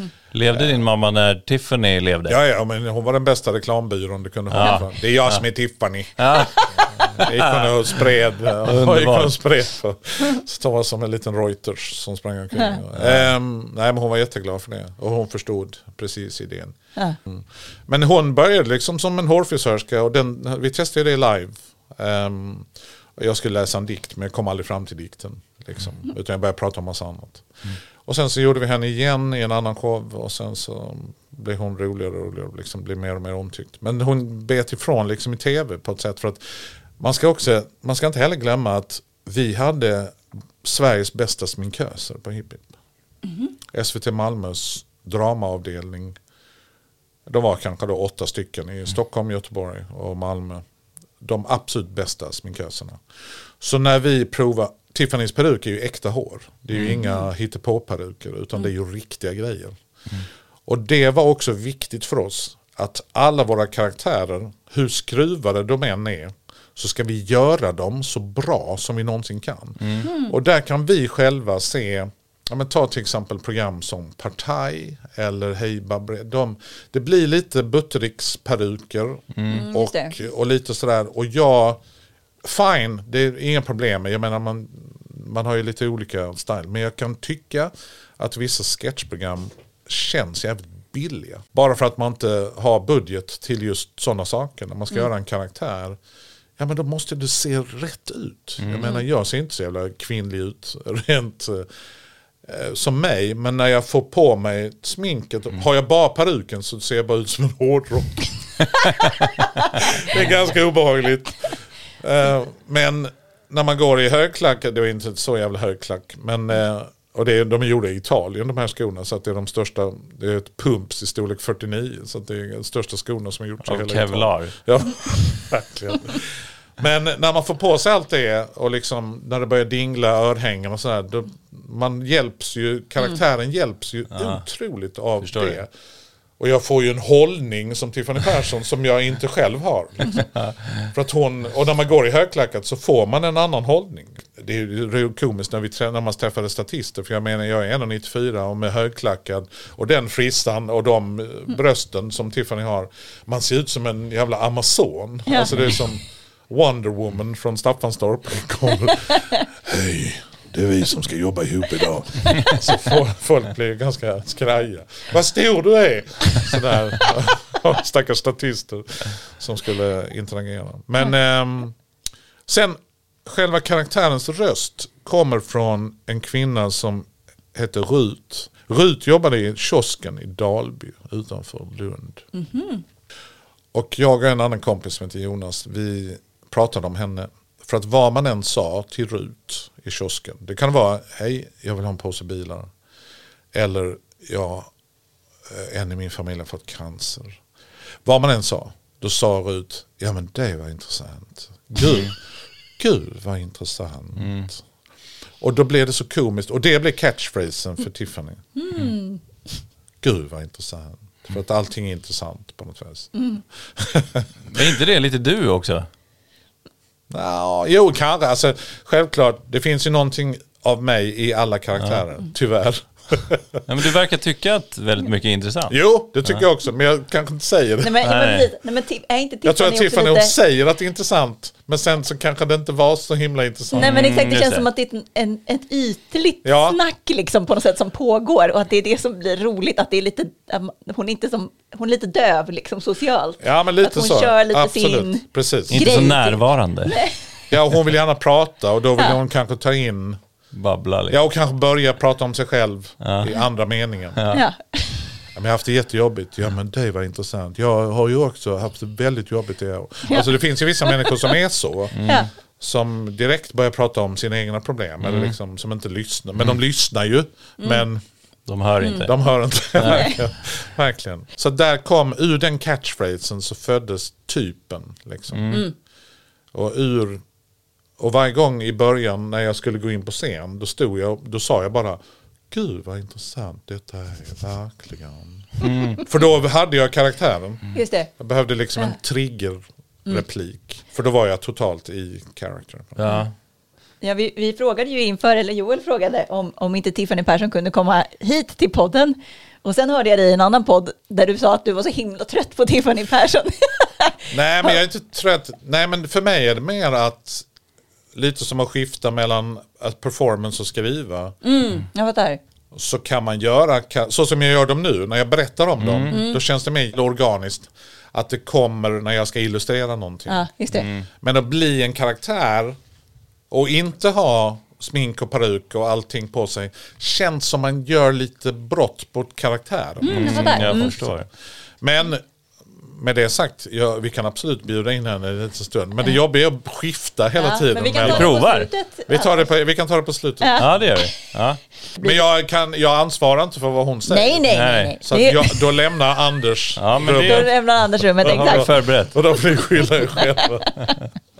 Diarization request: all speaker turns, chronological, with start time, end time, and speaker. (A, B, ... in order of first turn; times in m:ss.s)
0:00.3-0:02.4 A
0:00.5-0:00.8 B
0:02.3-0:27.4 B
0:04.5-0:05.4 A
0:06.2-0:07.9 A
0:08.6-0:09.4 A
0:13.0-0:13.3 A
0:28.0-0:42.7 B
0:43.7-0:46.2 B
0:47.3-0:50.6 B
0:51.2-0:53.0 B
0:53.6-0:59.8 B
1:00.7-1:21.8 B
1:10.0-1:10.3 C
1:19.3-1:19.7 A
1:19.5-1:20.2 C
1:22.4-1:36.0 B
1:36.6-1:41.7 B
1:38.6-1:38.9 A
1:42.4-1:49.1 B
1:49.7-2:15.7 B
2:03.6-2:04.5 A
2:15.2-2:15.6 A
2:16.4-2:20.3 B
2:20.8-2:51.8 B
2:52.5-3:02.3 B
3:02.3-3:02.8 C
3:03.7-3:12.7 B
3:13.5-3:14.7 B
3:15.5-3:17.4 B
3:18.0-3:22.2 B
3:22.8-3:24.6 B
3:24.2-3:24.5 A
3:25.4-3:28.5 B
3:28.6-3:29.2 C
3:30.0-3:34.6 B
3:34.5-3:35.9 A
3:37.1-3:43.6 B
3:43.7-3:45.8 A
3:45.7-3:48.0 B
3:47.8-3:50.3 C
3:48.0-3:48.5 A
3:49.4-3:54.1 B
3:53.7-4:07.2 C
3:53.8-3:54.7 A
3:56.4-3:56.8 B
4:03.4-4:06.1 B
4:05.7-4:07.0 A
4:07.5-4:10.2 B
4:10.5-4:11.2 A
4:11.1-4:14.2 B
4:13.0-4:13.3 A
4:14.2-4:14.4 A
4:14.3-4:14.9 C
4:15.3-4:28.0 B
4:20.9-4:21.3 C
4:22.0-4:22.3 A
4:25.0-4:25.3 A
4:28.5-4:29.1 A
4:28.8-4:29.1 C
4:29.0-4:35.6 B
4:29.8-4:30.2 A
4:29.9-4:30.2 C
4:35.3-4:35.7 A
4:36.5-4:37.2 B
4:38.0-4:42.0 B
4:42.5-4:53.2 B
4:45.6-4:46.0 A
4:47.7-4:48.1 C
4:53.0-4:53.3 A
4:54.0-5:04.8 C
5:04.3-5:07.5 B
5:08.1-5:11.4 B
5:11.4-5:12.4 C
5:12.7-5:20.5 B
5:15.8-5:16.2 A
5:16.1-5:16.4 C
5:20.3-5:20.9 C
5:20.7-5:21.1 A
5:21.2-5:22.8 B
5:23.5-5:31.2 B
5:30.0-5:31.0 C
5:30.1-5:31.3 A
5:31.8-5:32.2 B
5:32.8-5:38.4 B
5:37.4-5:39.5 C
5:37.9-5:38.7 A
5:39.1-5:40.8 B
5:40.4-5:41.1 C
5:40.6-5:41.6 A
5:42.0-5:42.2 C
5:42.0-5:47.5 B
5:44.1-5:45.6 C
5:44.5-5:45.0 A
5:46.8-5:47.5 A
5:47.2-5:48.7 C
5:48.2-5:49.2 A
5:48.2-5:50.9 B
5:50.0-5:50.4 C